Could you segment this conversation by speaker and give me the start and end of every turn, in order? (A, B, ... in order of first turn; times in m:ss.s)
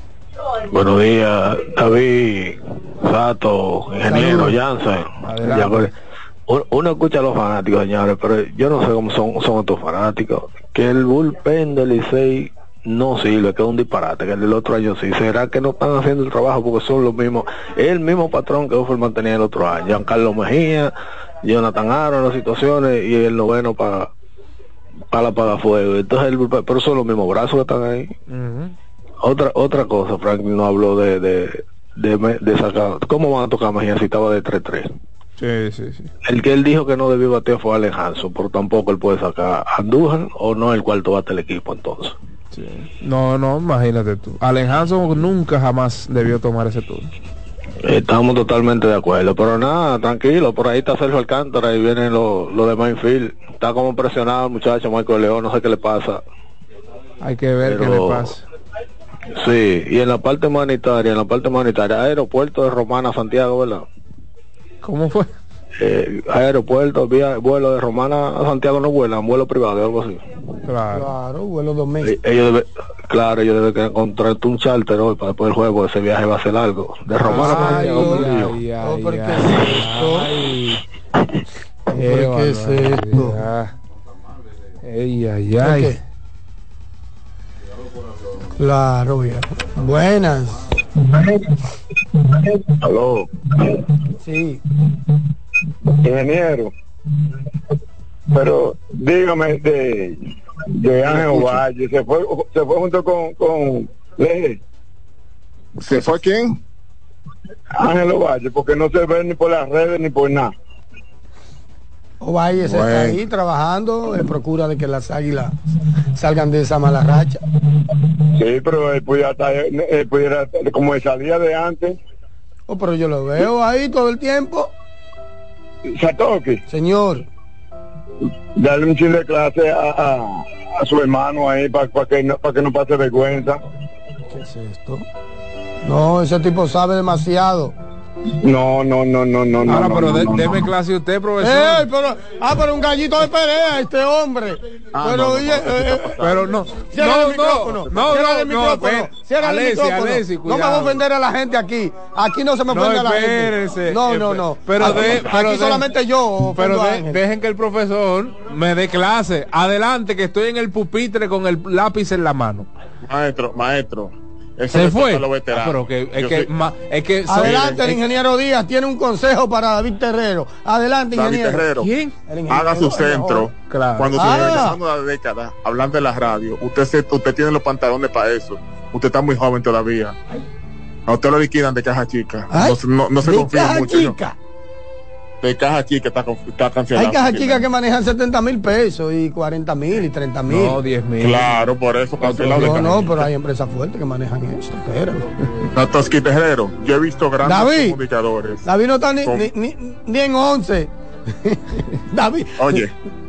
0:00.7-0:05.9 A
0:04.1-0:04.6 B
0:05.2-0:05.9 C
0:06.5-0:24.1 A
0:25.1-0:28.1 A
0:28.3-0:28.7 C
0:29.2-0:34.9 A
0:35.4-0:36.1 C
0:36.3-0:42.2 A
0:42.5-0:47.1 C
0:47.8-0:56.2 A
0:57.2-0:58.4 C
0:57.6-0:58.4 A
0:59.4-1:03.8 A
1:04.8-1:05.3 C
1:05.8-1:10.3 A
1:10.7-1:11.1 C
1:10.9-1:12.2 B
1:12.0-1:18.4 A
1:17.2-1:20.8 C
1:17.2-1:20.3 B
1:21.9-1:23.5 B
1:21.9-1:23.7 C
1:24.8-1:26.0 C
1:25.6-1:26.0 B
1:28.6-1:30.7 B
1:32.8-1:33.3 D
1:34.2-1:34.6 B
1:35.9-1:36.7 D
1:38.3-1:44.6 D
1:41.1-1:41.6 E
1:45.8-1:46.6 E
1:47.8-1:50.5 D
1:52.2-1:55.6 B
1:52.7-1:53.2 E
1:56.2-1:57.4 B
1:58.3-2:02.0 D
2:02.7-2:04.7 B
2:05.9-2:06.6 D
2:06.7-2:07.3 B
2:08.6-2:13.6 D
2:14.3-2:15.1 B
2:15.8-2:17.8 B
2:18.4-2:20.6 D
2:19.7-2:21.9 C
2:21.4-2:26.1 B
2:24.9-2:26.5 E
2:26.2-2:31.0 C
2:26.9-2:37.2 B
2:32.7-2:35.9 C
2:34.9-2:35.2 E
2:36.6-2:42.7 C
2:43.1-2:46.5 E
2:44.7-2:48.0 C
2:47.3-2:51.7 B
2:51.1-2:51.9 E
2:51.8-2:52.1 C
2:52.3-2:53.5 B
2:52.5-3:00.2 E
2:53.7-2:54.6 C
2:54.2-2:54.8 B
3:01.1-3:04.2 E
3:02.5-3:04.4 B
3:05.4-3:07.6 E
3:07.0-3:10.8 B
3:10.5-3:11.5 C
3:11.2-3:13.0 E
3:12.2-3:13.2 C
3:12.3-3:15.3 B
3:15.8-3:18.7 E
3:17.4-3:18.0 B
3:18.6-3:22.8 B
3:22.6-3:22.9 E